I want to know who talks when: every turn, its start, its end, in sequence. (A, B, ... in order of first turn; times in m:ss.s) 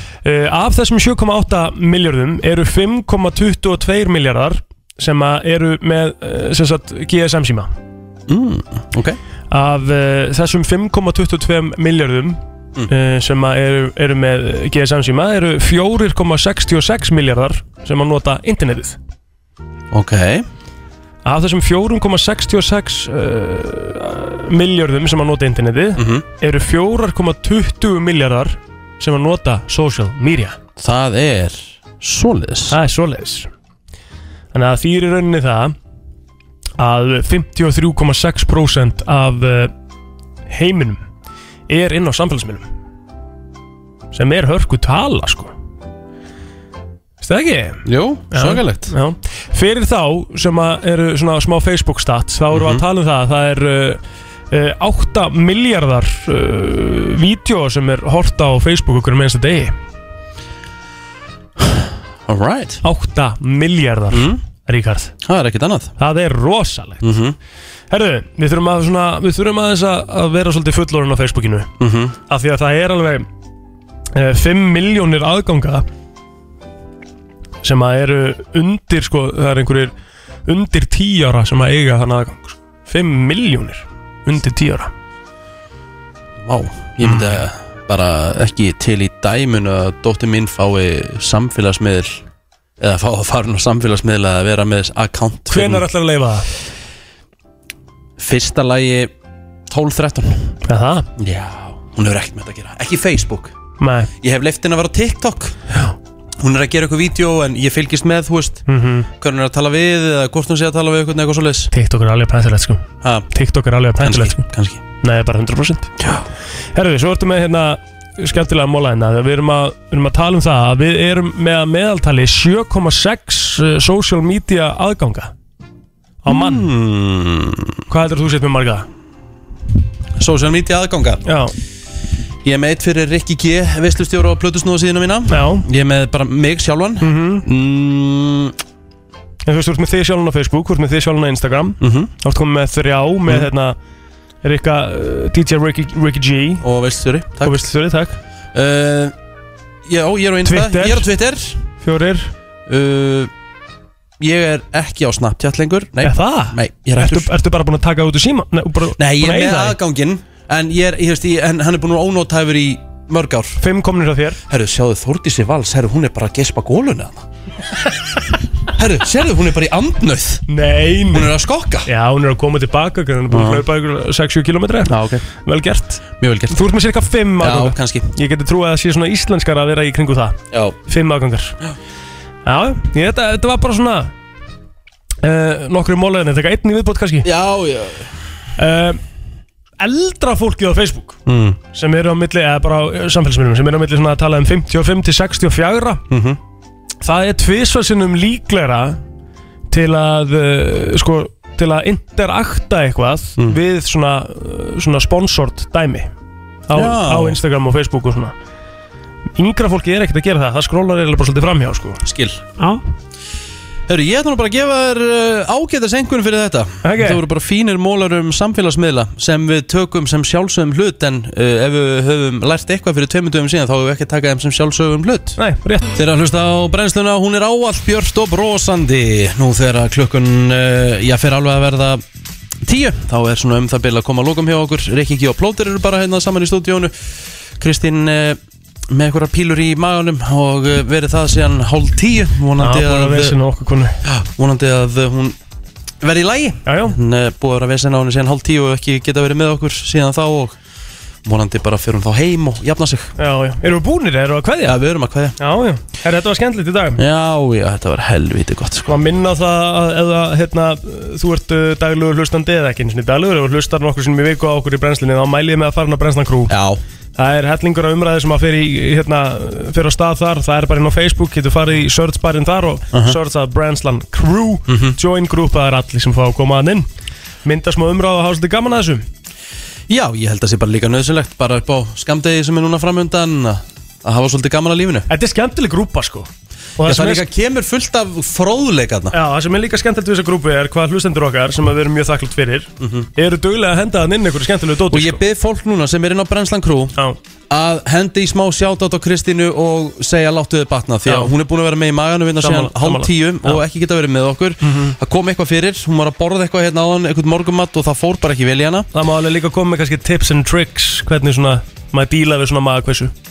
0:00.2-0:07.7 A
0:08.3-0:09.2 B
0:09.5-0:12.4 A
0:12.9-0:19.0 A
0:19.9-0:20.5 B
0:21.2-0:30.6 A
0:26.0-0:26.2 B
0:30.8-0:32.8 B
0:32.7-0:33.5 A
0:34.5-0:35.7 A
0:36.8-0:39.7 A
0:40.5-0:41.0 A
0:41.7-0:42.6 A
0:44.1-0:45.5 A
0:47.2-0:54.0 A
0:47.8-0:48.9 B
0:52.5-0:52.8 B
0:54.5-0:59.7 A
1:01.6-1:02.8 B
1:02.8-1:05.1 A
1:04.1-1:04.4 B
1:05.2-1:05.9 B
1:06.0-1:07.0 A
1:07.0-1:07.4 B
1:07.9-1:11.7 A
1:11.8-1:12.2 B
1:12.3-1:13.2 A
1:14.1-1:15.8 A
1:17.6-1:19.9 A
1:20.4-1:24.9 A
1:26.4-1:32.2 B
1:27.0-1:27.3 A
1:32.8-1:35.8 B
1:35.5-1:36.5 A
1:38.2-1:39.1 B
1:39.7-1:40.5 B
1:40.7-1:41.1 A
1:41.2-1:43.5 B
1:43.8-1:44.1 A
1:44.2-1:45.6 B
1:46.4-1:48.6 B
1:48.7-1:49.1 A
1:49.2-1:51.7 B
1:51.7-1:54.4 A
1:53.0-1:53.3 B
1:54.0-1:54.8 B
1:55.0-1:55.9 A
1:56.0-1:56.3 B
1:56.7-2:05.3 A
2:06.2-2:06.7 A
2:06.3-2:07.8 B
2:07.9-2:08.8 A
2:10.2-2:11.2 B
2:11.2-2:11.5 A
2:12.4-2:18.5 B
2:15.3-2:15.6 A
2:17.0-2:17.4 A
2:19.4-2:23.8 A
2:21.8-2:22.1 B
2:24.4-2:26.6 A
2:26.6-2:27.6 B
2:27.4-2:28.2 A
2:28.5-2:29.1 B
2:29.8-2:31.6 B
2:30.4-2:31.1 A
2:31.8-2:32.3 A
2:32.7-2:33.3 B
2:34.2-2:37.3 B
2:36.0-2:39.8 A
2:39.0-2:43.6 B
2:43.6-2:44.4 A
2:44.5-2:47.2 B
2:48.7-2:50.4 B
2:50.5-2:51.3 A
2:51.1-2:51.9 B
2:51.8-3:01.6 A
2:53.3-2:53.6 B
2:54.8-2:55.2 B
2:56.2-2:56.7 B
2:57.4-2:58.1 B
3:02.4-3:04.1 A
3:05.2-3:07.3 A
3:07.2-3:08.1 B
3:08.6-3:09.0 A
3:09.8-3:11.2 A
3:11.3-3:11.6 B
3:11.7-3:16.0 A
3:16.1-3:16.4 B
3:17.0-3:19.0 A
3:19.7-3:26.1 A
3:26.7-3:28.3 A
3:26.7-3:27.4 B
3:29.4-3:32.0 A
3:32.0-3:32.4 B
3:33.9-3:45.4 B
3:36.8-3:37.2 A
3:45.4-3:45.8 A
3:45.9-3:52.0 B
3:52.6-3:58.4 B
3:58.9-4:03.4 B
4:02.6-4:04.0 A
4:04.0-4:05.4 B
4:06.0-4:10.6 B
4:06.6-4:07.0 A
4:11.2-4:13.1 B
4:13.2-4:14.8 A
4:14.6-4:15.4 B
4:15.4-4:17.0 A
4:17.0-4:18.9 B
4:18.8-4:26.5 A
4:26.5-4:26.8 B
4:27.2-4:36.9 A
4:34.7-4:35.0 B
4:37.4-4:39.0 A
4:39.9-4:45.1 B
4:45.1-4:47.2 A
4:46.8-4:49.2 B
4:49.1-4:55.2 A
4:52.8-4:53.1 B
4:54.9-4:56.9 B
4:57.5-5:08.9 B
5:01.1-5:01.3 A
5:02.4-5:03.6 A
5:04.6-5:05.0 A
5:08.9-5:13.1 A